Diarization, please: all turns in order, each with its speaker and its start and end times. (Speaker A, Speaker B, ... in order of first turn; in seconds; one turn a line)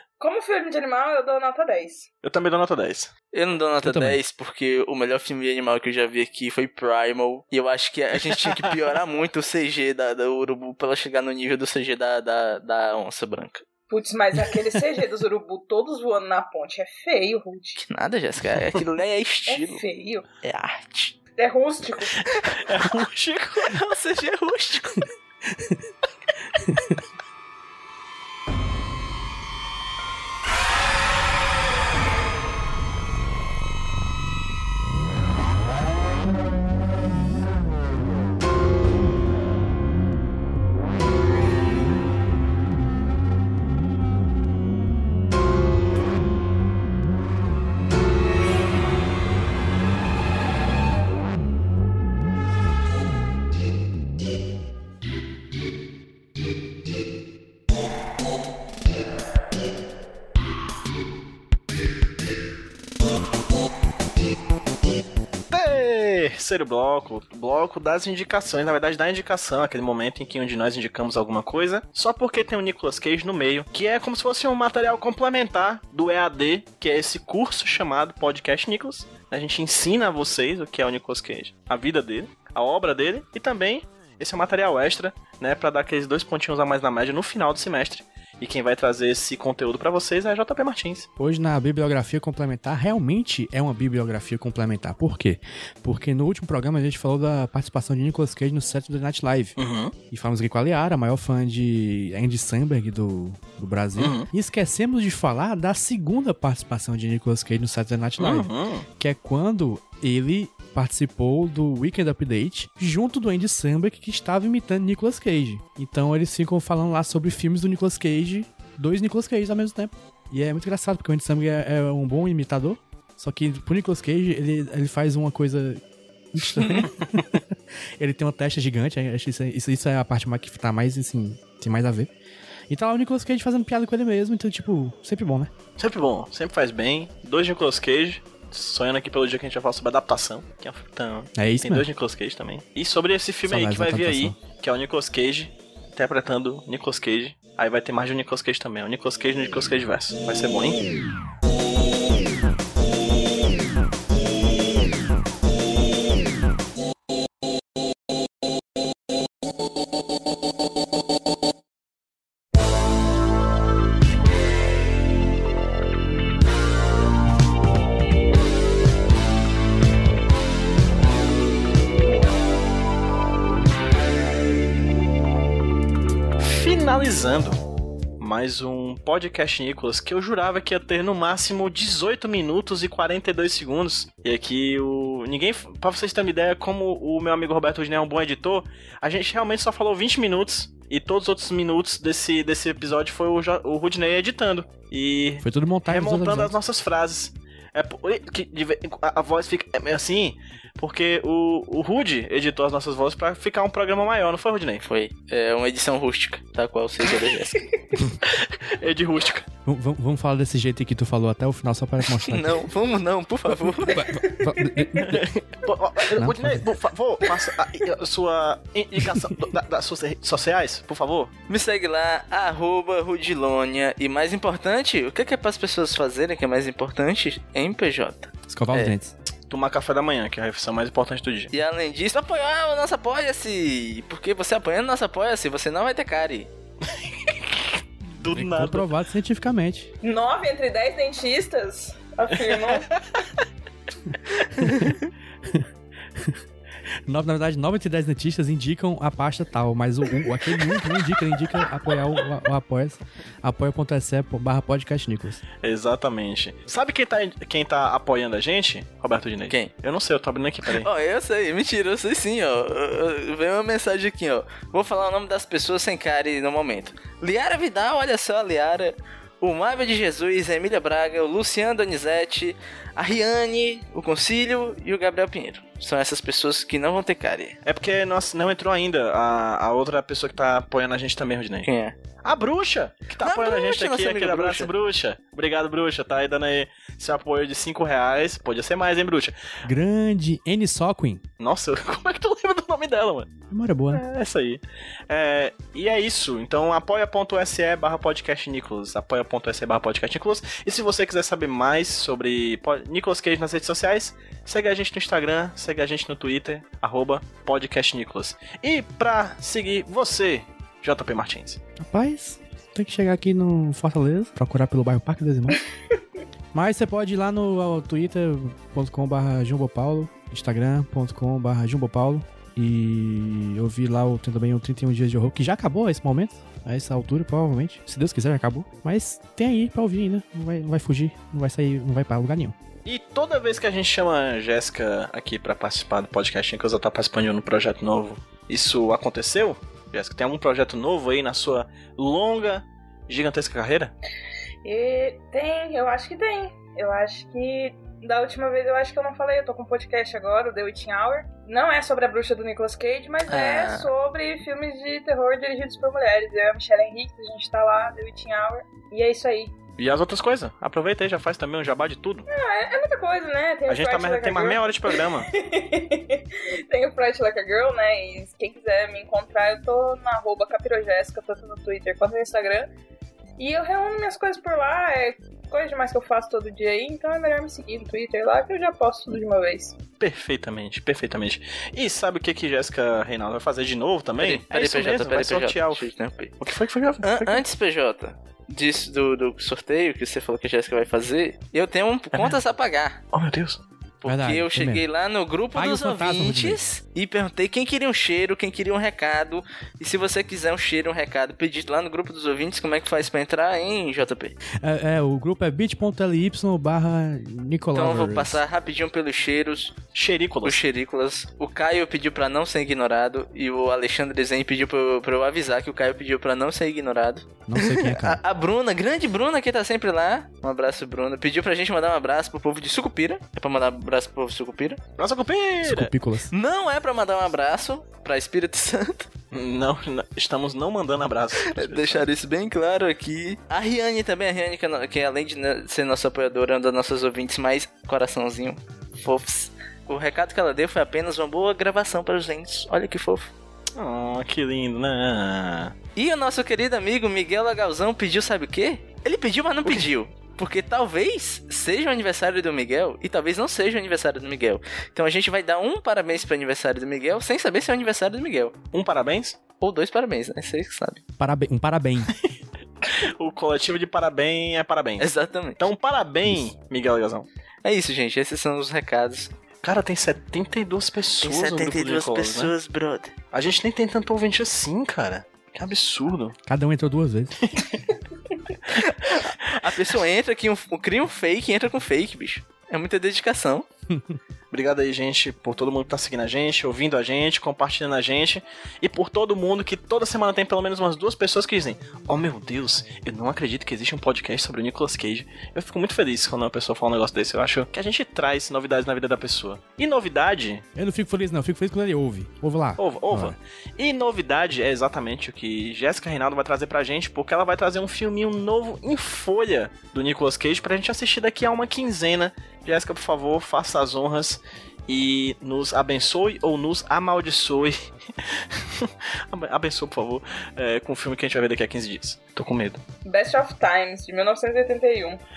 Speaker A: 0.2-2.1
Speaker B: 2.2-3.1
Speaker C: 3.3-13.6
Speaker D: 3.8-4.2
Speaker B: 8.3-8.7
Speaker A: 13.9-17.8
Speaker C: 17.8-19.8
Speaker A: 19.5-20.2
Speaker C: 20.4-21.2
Speaker A: 21.4-22.3
Speaker B: 22.6-23.8
Speaker C: 23.6-25.1
Speaker D: 25.5-25.8
Speaker D: 26.7-27.0
Speaker B: 65.5-91.1
Speaker D: 91.2-99.6
Speaker B: 99.6-99.9
Speaker D: 100.1-132.1
Speaker B: 104.0-104.3
Speaker B: 108.2-108.8
Speaker C: 126.6-126.8
Speaker D: 132.7-135.5
Speaker B: 135.8-150.8
Speaker D: 141.3-141.9
Speaker D: 143.4-144.4
Speaker B: 176.4-177.6
Speaker B: 178.2-204.8
Speaker D: 195.4-196.5
Speaker C: 204.8-207.7
Speaker B: 208.2-209.5
Speaker D: 209.7-212.6
Speaker C: 212.2-214.0
Speaker D: 213.7-215.2
Speaker A: 214.2-215.0
Speaker B: 215.0-221.3
Speaker D: 216.1-216.7
Speaker C: 221.5-228.9
Speaker D: 228.5-229.2
Speaker B: 229.5-231.5
Speaker C: 231.5-236.5
Speaker B: 236.9-238.9
Speaker D: 238.3-239.9
Speaker A: 240.0-242.9
Speaker B: 242.4-243.0
Speaker D: 244.6-246.4
Speaker D: 247.1-255.4
Speaker B: 255.6-260.9
Speaker C: 260.7-277.6
Speaker B: 277.6-281.7
Speaker C: 281.6-281.9
Speaker B: 282.2-289.4
Speaker C: 283.2-284.7
Speaker D: 289.6-291.2
Speaker B: 291.4-293.3
Speaker D: 293.5-294.0
Speaker B: 293.9-311.6
Speaker D: 311.8-315.6
Speaker D: 316.5-332.5
Speaker B: 332.8-343.9
Speaker A: 344.6-359.5
Speaker C: 353.3-353.9
Speaker B: 359.8-362.3
Speaker A: 362.3-372.7
Speaker B: 363.7-365.3
Speaker A: 373.4-379.8
Speaker B: 380.0-385.8
Speaker C: 384.2-386.4
Speaker B: 386.4-387.4
Speaker C: 387.0-393.0
Speaker B: 393.1-393.6
Speaker C: 394.0-404.4
Speaker D: 394.0-394.8
Speaker D: 395.5-396.6
Speaker D: 404.6-408.4
Speaker C: 407.7-409.7
Speaker B: 409.9-410.6
Speaker C: 410.4-424.8
Speaker D: 417.5-418.2
Speaker B: 425.0-425.9
Speaker D: 425.6-426.3
Speaker C: 426.3-429.1
Speaker B: 429.3-432.0
Speaker C: 431.4-443.3
Speaker B: 443.8-445.7
Speaker C: 445.9-458.5
Speaker B: 449.6-449.9
Speaker B: 458.7-459.4
Speaker C: 459.6-461.0
Speaker D: 461.2-462.1
Speaker B: 462.8-465.1
Speaker C: 465.0-465.6
Speaker B: 465.6-467.3
Speaker D: 466.2-466.5
Speaker C: 467.6-469.3
Speaker B: 469.6-472.5
Speaker C: 471.2-473.1
Speaker B: 473.3-476.4
Speaker D: 476.4-477.3
Speaker B: 477.4-477.8
Speaker C: 478.7-483.6
Speaker D: 483.9-484.1
Speaker B: 484.5-500.6
Speaker D: 500.7-503.4
Speaker B: 502.8-517.8
Speaker B: 518.3-522.8
Speaker A: 523.0-525.2